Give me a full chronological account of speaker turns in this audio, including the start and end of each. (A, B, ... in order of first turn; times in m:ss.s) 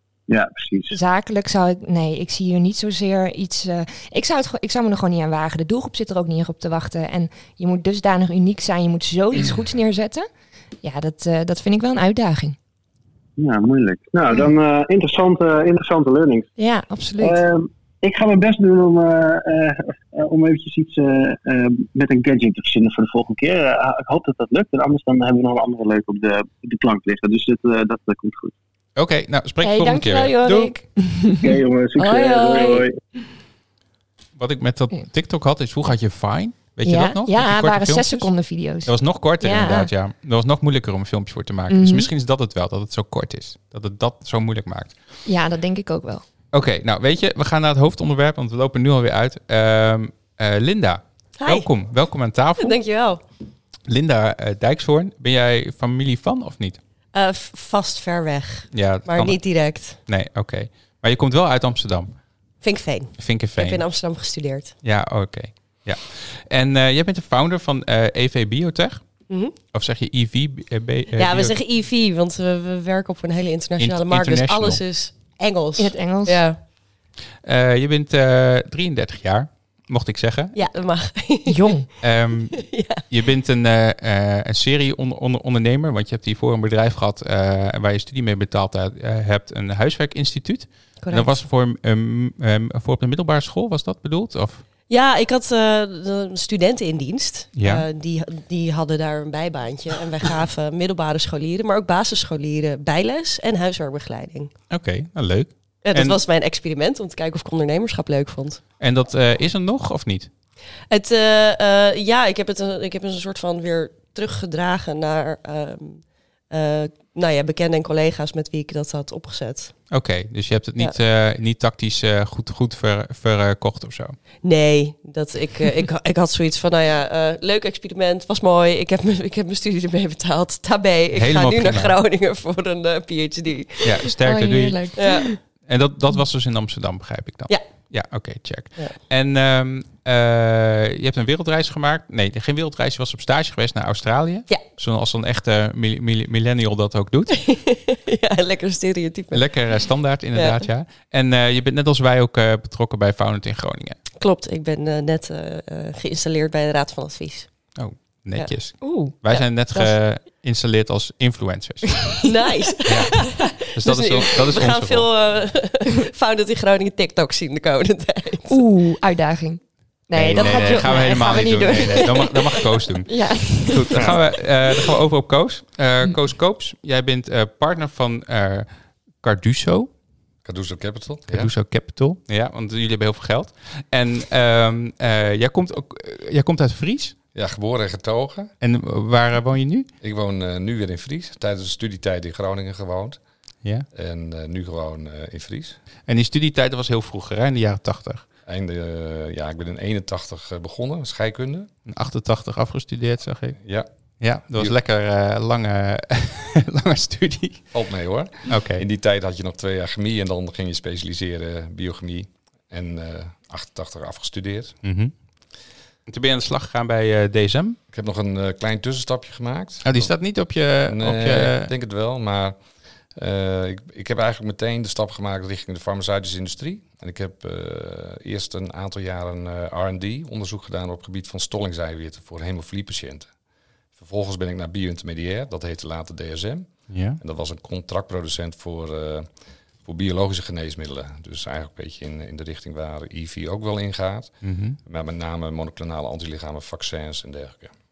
0:00.3-0:01.0 A
0:00.9-0:10.3 B
0:10.8-0:12.6 B
0:13.4-0:16.5 A
0:16.6-0:17.4 B
0:17.2-0:28.5 A
0:29.0-0:30.7 C
0:29.6-0:32.8 B
0:31.4-0:33.0 A
0:34.4-0:38.3 C
0:36.8-0:39.9 B
0:38.8-0:44.9 C
0:41.7-0:42.1 B
0:45.2-0:46.2 B
0:46.5-0:52.8 C
0:51.4-0:51.7 D
0:52.6-0:53.2 D
0:53.9-0:56.8 C
0:57.1-1:00.0 D
0:58.7-0:59.4 C
0:59.9-1:02.1 C
1:02.6-1:04.7 D
1:03.2-1:03.8 C
1:04.8-1:09.0 C
1:09.3-1:09.5 D
1:09.7-1:11.6 C
1:11.1-1:16.6 D
1:13.8-1:14.8 C
1:15.8-1:16.4 B
1:17.4-1:20.5 C
1:20.5-1:21.7 D
1:21.4-1:21.8 B
1:22.0-1:34.6 C
1:22.5-1:23.0 D
1:31.0-1:31.4 D
1:34.9-1:44.5 D
1:37.6-1:37.8 C
1:44.7-1:46.2 C
1:45.8-1:48.6 D
1:48.8-1:50.3 C
1:50.9-1:59.8 D
1:59.9-2:04.2 C
2:04.4-2:14.0 D
2:11.1-2:11.9 C
2:13.8-2:14.8 C
2:14.2-2:15.4 B
2:15.0-2:15.4 D
2:15.6-2:27.4 C
2:27.3-2:29.5 D
2:29.3-2:34.0 C
2:30.3-2:30.6 D
2:34.2-2:37.5 D
2:37.8-2:42.2 C
2:38.8-2:39.9 B
2:42.0-2:42.3 B
2:42.2-2:48.6 D
2:42.8-2:45.1 C
2:48.5-2:54.1 B
2:50.1-2:58.7 C
2:50.4-2:52.4 D
2:59.2-2:59.9 C
3:00.4-3:01.5 E
3:01.3-3:07.2 C
3:07.3-3:08.5 E
3:08.6-3:09.9 C
3:10.0-3:13.2 E
3:13.9-3:15.8 E
3:16.1-3:18.2 C
3:18.4-3:21.7 E
3:21.8-3:23.6 C
3:23.6-3:23.9 E
3:24.2-3:27.6 C
3:27.7-3:34.8 E
3:28.5-3:28.8 C
3:34.8-3:35.1 C
3:36.1-3:37.8 C
3:37.9-3:40.1 E
3:39.8-3:41.7 C
3:40.8-3:42.6 E
3:43.1-3:53.3 E
3:54.0-3:59.3 E
3:56.9-3:57.2 C
3:59.8-4:07.7 E
4:04.4-4:04.8 C